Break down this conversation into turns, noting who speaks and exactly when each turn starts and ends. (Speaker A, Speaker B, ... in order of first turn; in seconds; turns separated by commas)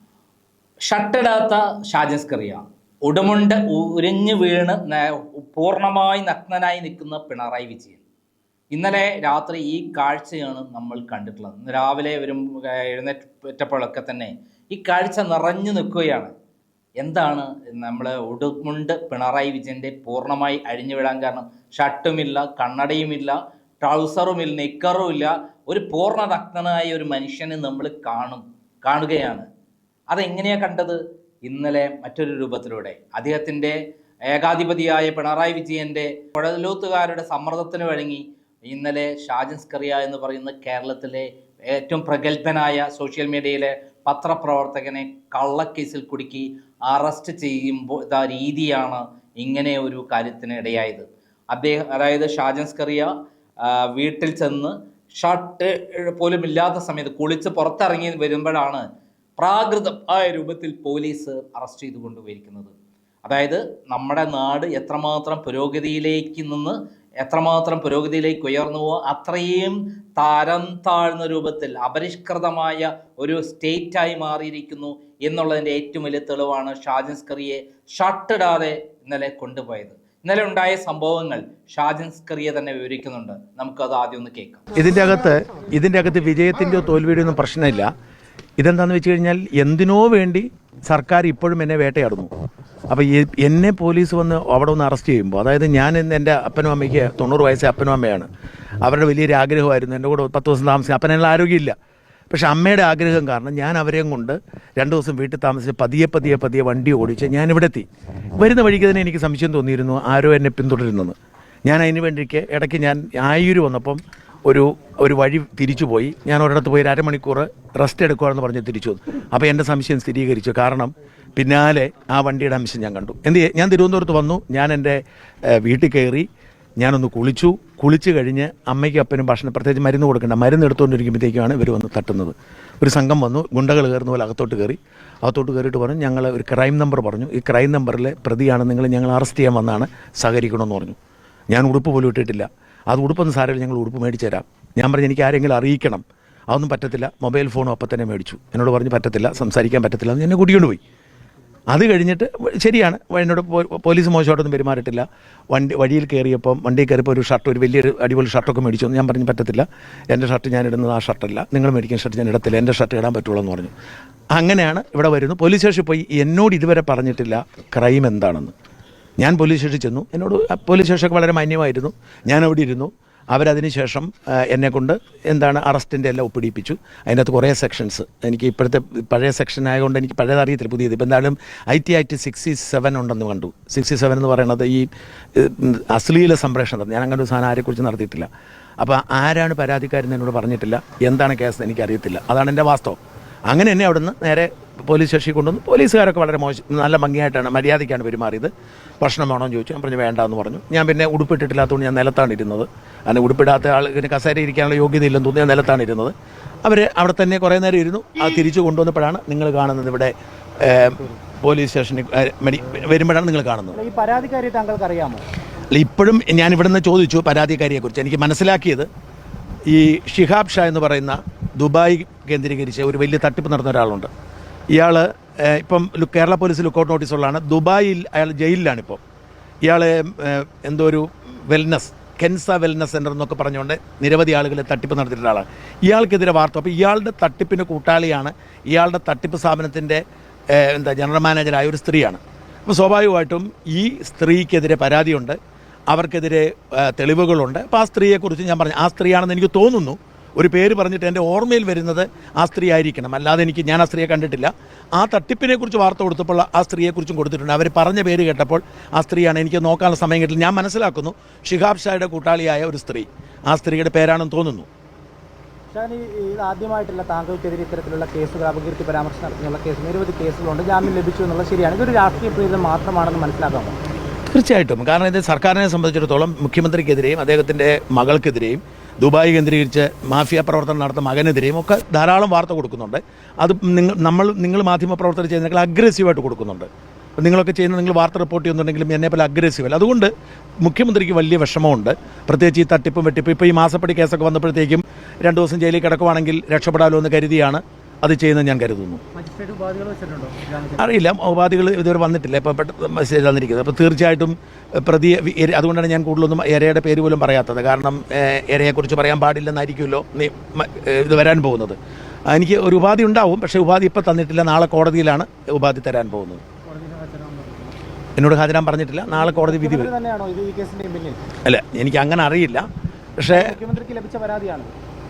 Speaker A: 0.9-8.0, Speaker A: 8.7-16.3, Speaker A: 17.0-29.5, Speaker A: 30.1-33.8, Speaker A: 34.3-53.1, Speaker A: 53.6-58.8, Speaker A: 59.4-62.7, Speaker A: 63.2-84.6, Speaker B: 84.8-87.9, Speaker B: 88.6-92.3, Speaker B: 92.9-98.3, Speaker B: 98.8-101.7, Speaker B: 102.3-107.9, Speaker B: 108.4-111.2, Speaker B: 111.7-125.0, Speaker B: 125.5-126.3, Speaker B: 126.8-141.0, Speaker B: 141.5-150.8, Speaker B: 151.7-163.7, Speaker B: 164.3-168.5, Speaker B: 169.2-188.3, Speaker B: 188.8-193.0, Speaker B: 193.5-206.1, Speaker B: 206.7-213.8, Speaker C: 213.7-215.2, Speaker B: 215.7-218.9, Speaker B: 219.7-224.1, Speaker B: 224.7-229.0, Speaker B: 229.7-240.0, Speaker B: 240.5-245.4, Speaker B: 245.9-264.7, Speaker C: 265.7-273.8, Speaker B: 274.3-286.7, Speaker B: 287.2-290.1, Speaker B: 290.6-299.0, Speaker C: 299.1-300.8, Speaker B: 300.8-311.8, Speaker B: 312.3-316.4, Speaker C: 316.7-317.8, Speaker B: 318.2-319.9, Speaker C: 319.1-321.2, Speaker B: 321.4-322.6, Speaker B: 323.2-323.5, Speaker C: 323.3-324.7